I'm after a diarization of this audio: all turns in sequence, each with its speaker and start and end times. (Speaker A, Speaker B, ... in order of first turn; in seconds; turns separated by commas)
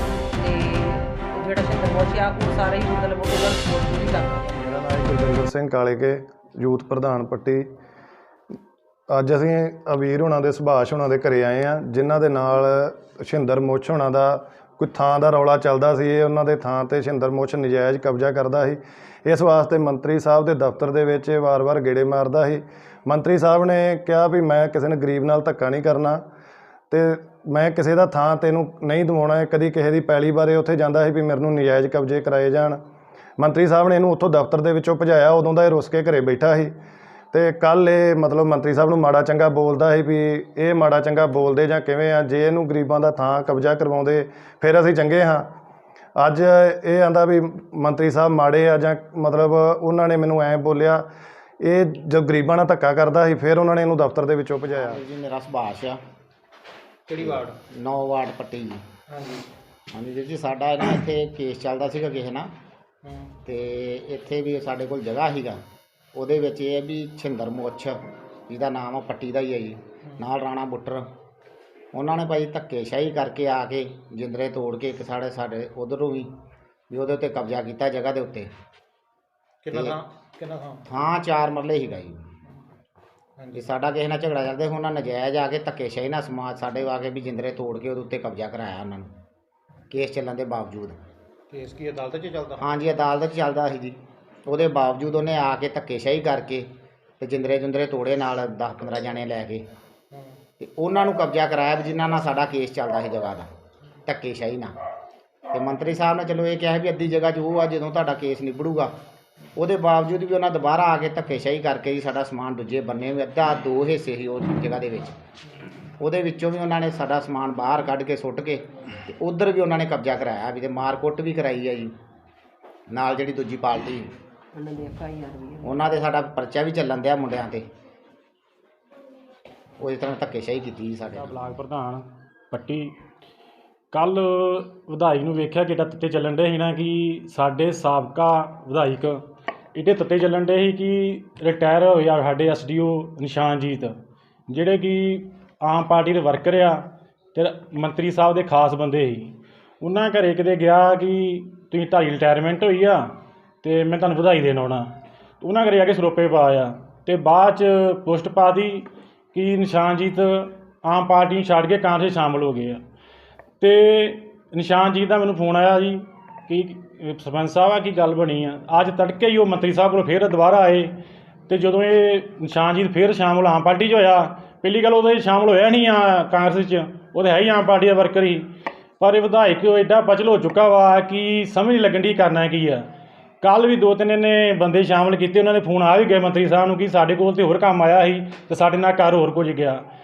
Speaker A: 0.4-4.5, Speaker B: 4.5-7.7, Speaker B: 9.1-26.2, Speaker B: 26.9-32.8, Speaker B: 33.4-36.7, Speaker B: 37.3-45.5, Speaker B: 46.2-51.1, Speaker B: 51.6-55.0, Speaker C: 54.7-56.0, Speaker D: 57.1-57.5, Speaker C: 57.2-58.8, Speaker D: 59.1-59.5, Speaker C: 59.9-62.5, Speaker D: 63.0-63.3, Speaker C: 63.4-65.6, Speaker C: 66.1-71.1, Speaker C: 71.9-76.3, Speaker C: 76.9-78.5, Speaker D: 79.6-80.8, Speaker C: 80.9-82.2, Speaker D: 83.4-83.7, Speaker C: 83.5-89.1, Speaker C: 89.9-91.0, Speaker D: 91.5-92.7, Speaker C: 92.6-96.7, Speaker C: 97.2-99.6, Speaker C: 100.6-103.5, Speaker C: 104.0-104.7, Speaker C: 105.5-108.9, Speaker C: 109.5-115.1, Speaker C: 116.0-121.9, Speaker C: 122.9-124.1, Speaker A: 124.5-125.9, Speaker C: 125.6-127.6, Speaker C: 129.8-131.6, Speaker E: 131.1-132.9, Speaker E: 133.9-139.2, Speaker E: 139.7-162.8, Speaker E: 163.6-170.9, Speaker E: 171.5-178.5, Speaker E: 179.0-182.9, Speaker E: 183.4-189.8